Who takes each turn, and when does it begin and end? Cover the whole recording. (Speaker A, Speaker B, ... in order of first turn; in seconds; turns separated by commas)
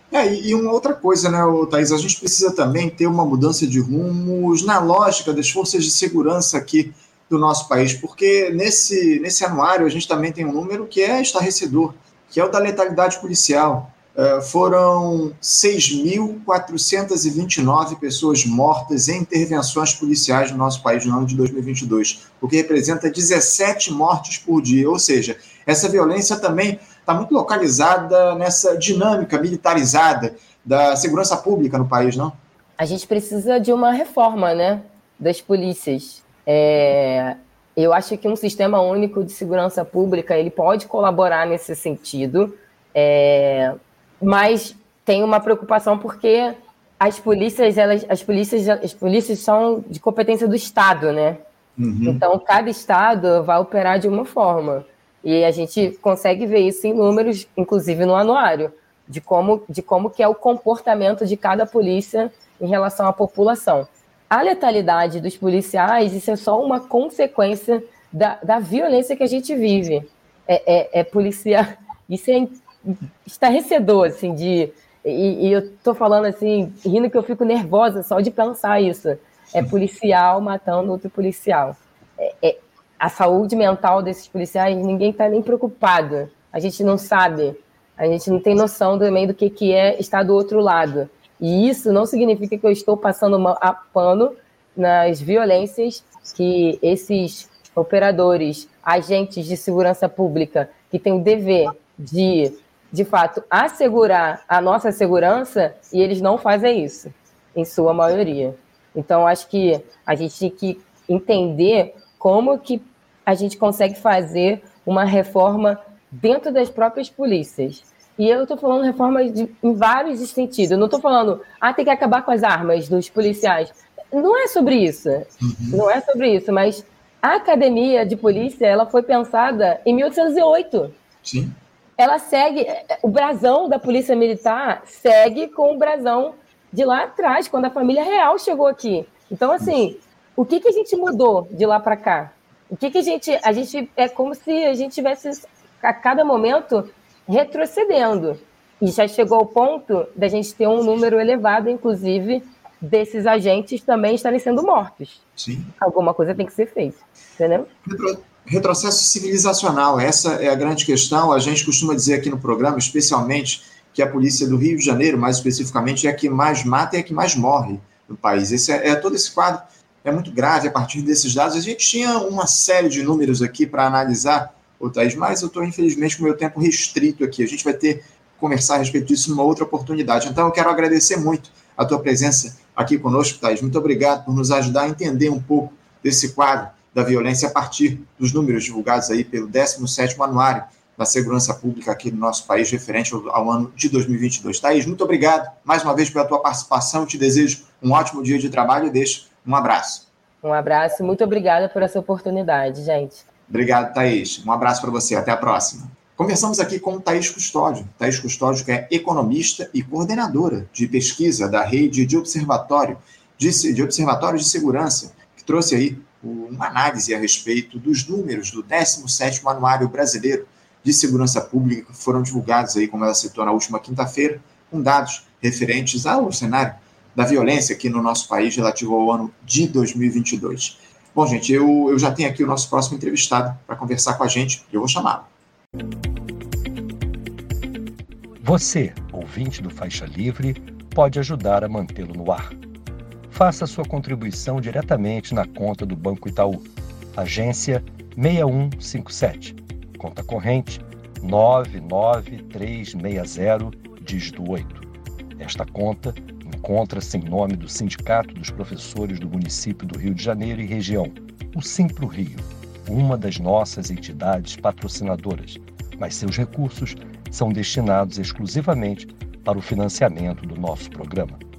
Speaker A: 0.1-32.4, Speaker B: 32.8-51.4, Speaker A: 51.8-52.2, Speaker B: 52.0-130.9, Speaker A: 125.4-125.8, Speaker A: 131.2-131.5, Speaker B: 132.0-155.2, Speaker A: 155.4-155.7, Speaker B: 155.8-157.7, Speaker A: 157.8-200.1, Speaker B: 200.4-203.2, Speaker A: 203.5-235.3, Speaker C: 238.4-242.5, Speaker C: 243.3-246.6, Speaker C: 247.2-254.9, Speaker C: 255.4-271.4